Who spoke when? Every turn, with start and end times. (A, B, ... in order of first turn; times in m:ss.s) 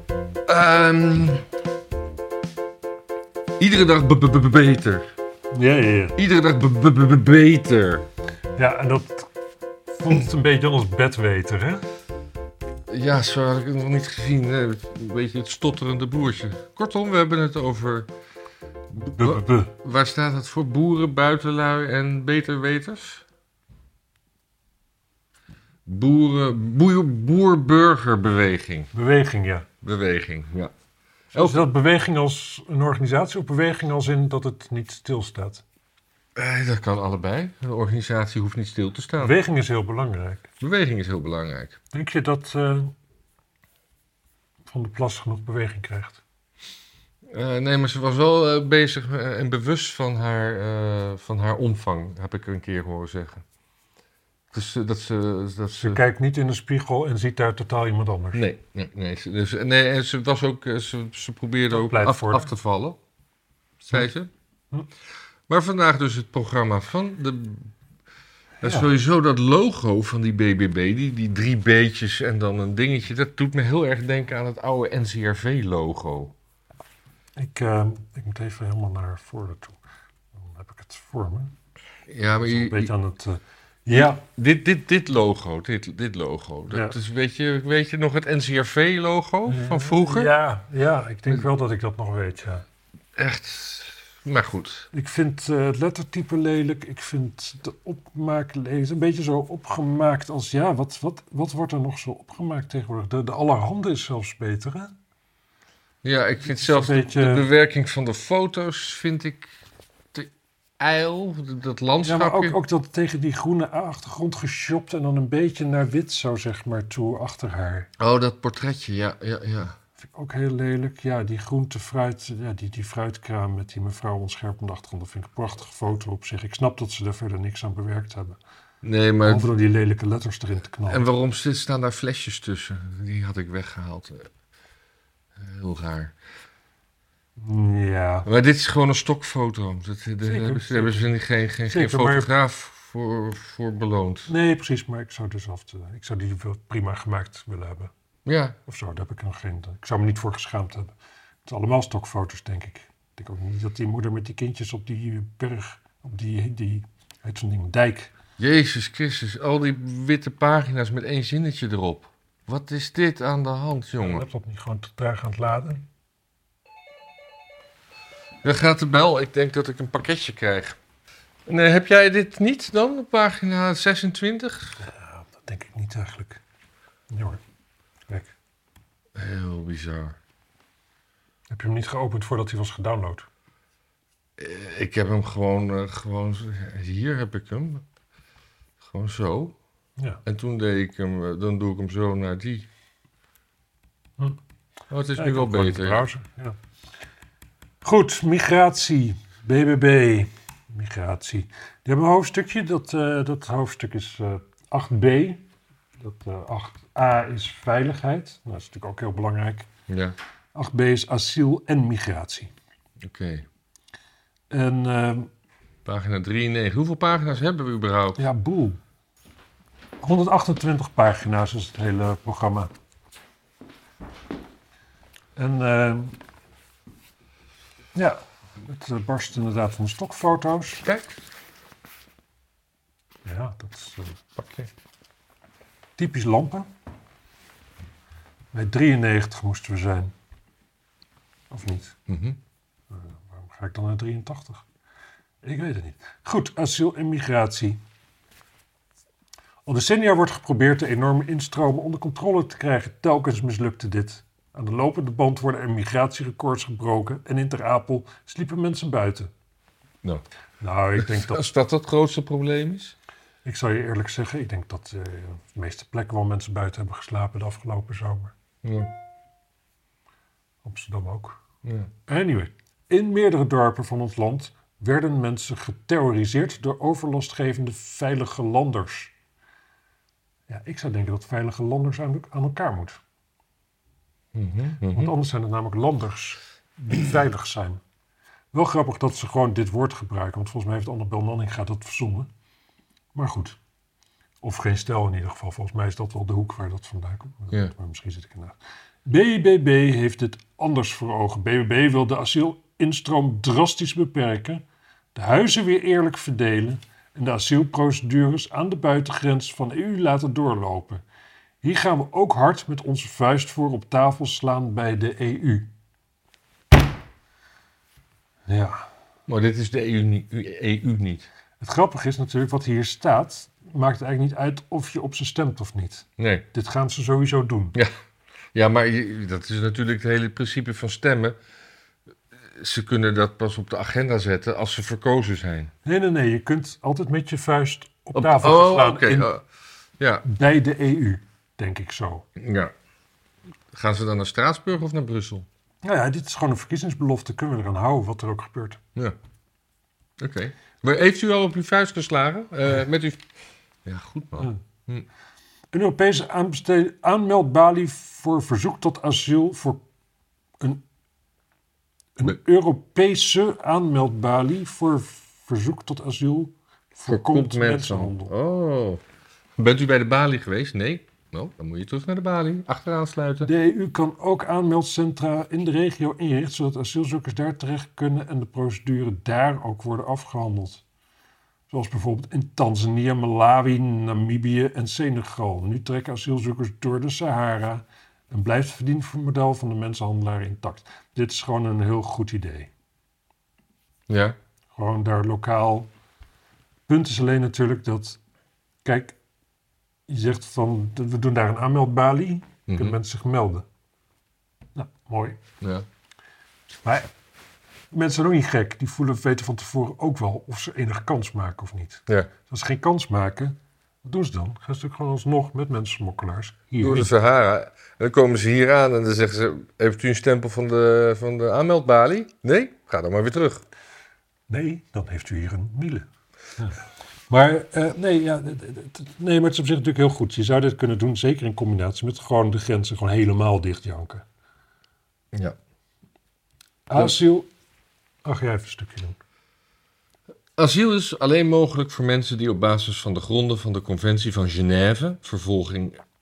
0:00.5-0:01.4 A
0:03.6-0:05.0 A
0:05.5-0:06.2 B
0:06.2-0:08.0 A
0:08.6-0:09.3 B
0:09.9-0:11.8 B
0:12.9-0:18.1 A
0:19.0-0:23.2 A
0:19.0-0:19.7 B
0:25.8-0:28.9 A
0:28.9-0:29.7 B
0:29.8-0:30.7 A
0:31.3-0:35.6 B
0:31.3-0:31.7 A
0:36.4-0:39.4 A
0:39.2-0:40.5 B
0:40.6-0:41.8 A
0:41.9-0:42.9 B
0:44.6-0:46.2 B
0:47.3-0:53.4 A
0:54.5-0:56.0 A
0:55.7-0:58.4 B
0:58.3-1:03.0 A
1:01.7-1:02.5 B
1:03.8-1:04.3 A
1:05.5-1:07.7 A
1:08.6-1:08.9 B
1:08.6-1:16.3 A
1:17.4-1:19.8 B
1:20.3-1:21.5 B
1:22.1-1:22.9 A
1:22.4-1:24.2 B
1:23.9-1:30.3 A
1:26.7-1:27.0 B
1:29.5-1:32.6 B
1:33.2-1:34.9 A
1:34.9-1:44.9 B
1:46.0-1:49.5 A
1:46.4-1:47.4 B
1:50.1-1:52.6 A
1:52.0-1:57.9 B
1:58.0-1:59.8 A
2:00.0-2:08.4 B
2:08.8-2:09.5 A
2:09.2-2:11.1 B
2:10.9-2:14.3 A
2:15.4-2:16.1 A
2:17.4-2:18.3 B
2:18.2-2:24.3 A
2:20.2-2:21.1 B
2:21.7-2:22.3 B
2:24.3-2:27.9 B
2:28.2-2:28.6 A
2:28.6-2:30.9 B
2:31.4-2:38.1 B
2:38.4-2:44.2 A
2:44.0-2:45.8 B
2:48.4-2:50.8 A
2:51.4-2:54.8 A
2:54.8-2:56.4 B
2:57.1-2:57.4 B
2:58.1-2:58.3 B
2:59.2-3:00.2 A
3:01.5-3:03.3 B
3:04.4-3:07.8 A
3:08.8-3:09.6 A
3:10.2-3:12.7 A
3:14.9-3:16.0 A
3:15.2-3:16.5 B
3:17.8-3:25.4 B
3:26.0-3:29.7 B
3:29.9-3:30.1 A
3:30.5-3:32.5 B
3:33.0-3:33.4 A
3:34.5-3:35.3 B
3:35.8-3:38.2 A
3:38.2-3:38.8 B
3:40.0-3:42.7 B
3:45.4-3:46.2 B
3:47.9-3:50.8 B
3:50.8-3:51.2 A
3:53.2-3:54.2 B
3:54.4-3:54.7 A
3:56.0-3:56.7 B
3:58.5-4:00.1 B
4:01.5-4:02.0 B
4:02.1-4:02.4 A
4:02.9-4:04.6 B
4:05.4-4:07.8 B
4:09.6-4:19.3 B
4:20.6-4:21.4 B
4:21.0-4:22.9 A
4:23.4-4:28.3 B
4:28.6-4:28.9 A
4:30.6-4:31.4 B
4:31.6-4:31.9 A
4:32.1-4:39.1 B
4:40.5-4:43.0 B
4:44.3-4:45.1 A
4:44.9-4:47.8 B
4:48.5-4:52.3 B
4:53.1-4:53.6 B
4:54.4-5:04.6 B
5:05.1-5:11.0 B
5:11.6-5:15.7 B
5:18.5-5:18.9 B
5:19.3-5:21.3 A
5:21.6-5:27.8 B
5:26.2-5:26.4 A
5:28.5-5:31.4 A
5:32.5-5:35.7 A
5:35.8-5:39.3 B
5:38.1-5:39.4 A
5:40.0-5:40.2 A
5:40.2-5:42.2 B
5:42.4-5:42.7 A
5:43.7-5:45.5 A
5:45.8-5:48.8 B
5:50.2-5:53.3 A
5:53.8-5:55.0 A
5:55.7-5:59.8 B
6:02.2-6:08.3 B
6:07.1-6:09.0 A
6:09.6-6:13.5 A
6:13.4-6:20.8 B
6:21.7-6:32.7 B
6:34.1-6:34.4 A
6:34.7-6:35.9 B
6:36.9-6:38.2 B
6:38.8-6:39.2 B
6:40.1-6:43.6 B
6:42.7-6:43.0 A
6:44.8-6:45.4 B
6:45.6-6:45.8 A
6:46.8-6:47.1 B
6:47.9-6:57.1 B
6:56.8-7:03.6 A
7:04.5-7:06.0 B
7:07.3-7:14.2 B
7:16.9-7:17.5 B
7:18.2-7:19.2 B
7:20.6-7:26.0 A